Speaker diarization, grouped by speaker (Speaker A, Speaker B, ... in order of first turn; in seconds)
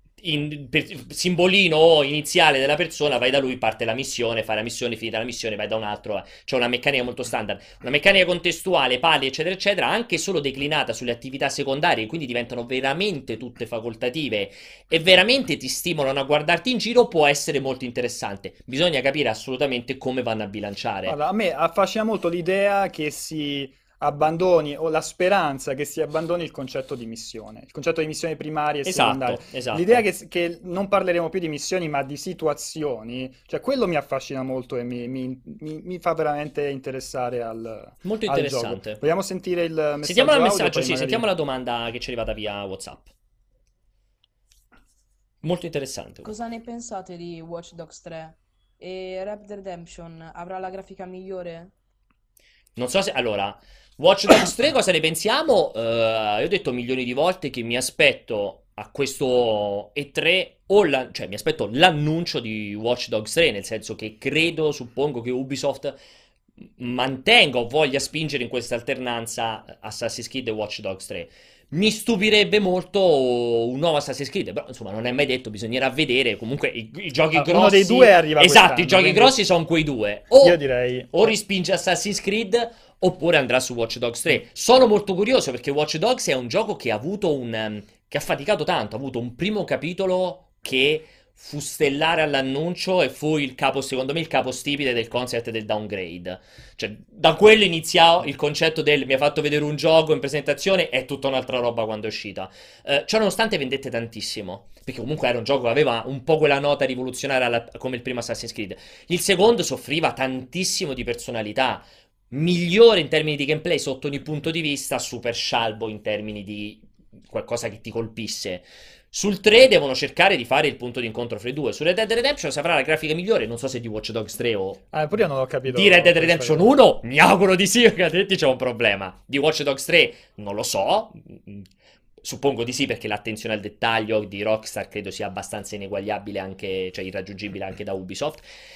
Speaker A: 0.2-21.1, 28.8-30.0, 38.0-39.0, 40.0-43.1, 45.4-46.3, 52.8-66.0, 66.8-80.6, 81.1-124.8, 125.7-131.7, 132.2-138.4
Speaker B: 21.1-41.2, 77.3-79.4, 80.4-81.3, 124.9-126.7
Speaker C: 46.2-51.7